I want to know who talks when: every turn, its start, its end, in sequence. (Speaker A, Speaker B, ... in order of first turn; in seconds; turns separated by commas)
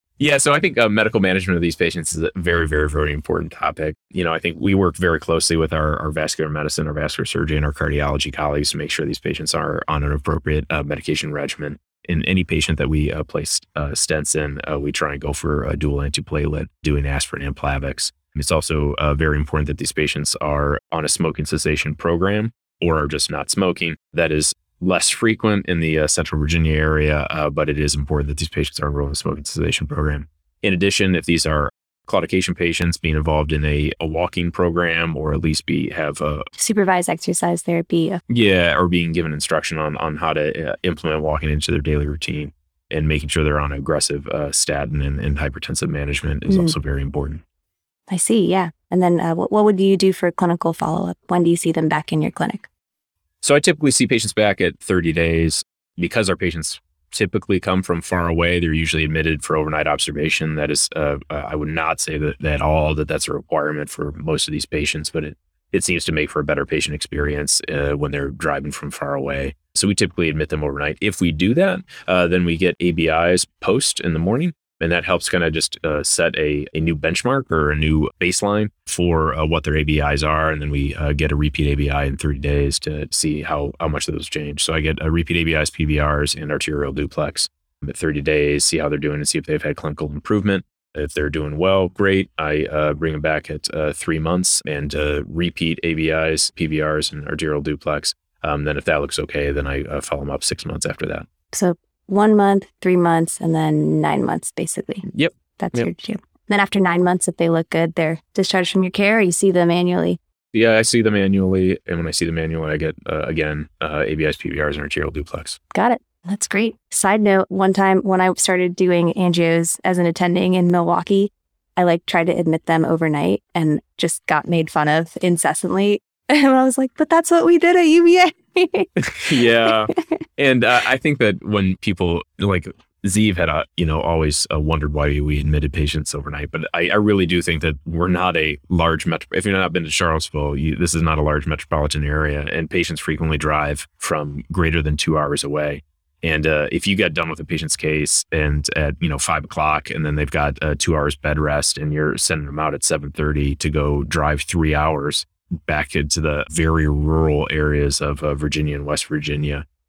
Speaker A: 0.2-36.5, Speaker B: 36.6-38.2, Speaker A: 38.3-47.4, Speaker B: 46.5-46.7, Speaker B: 48.1-52.7, Speaker A: 53.4-101.3, Speaker B: 101.5-105.1, Speaker A: 105.1-105.9, Speaker B: 105.6-110.2, Speaker A: 110.5-115.6, Speaker B: 115.7-129.7, Speaker A: 129.0-159.7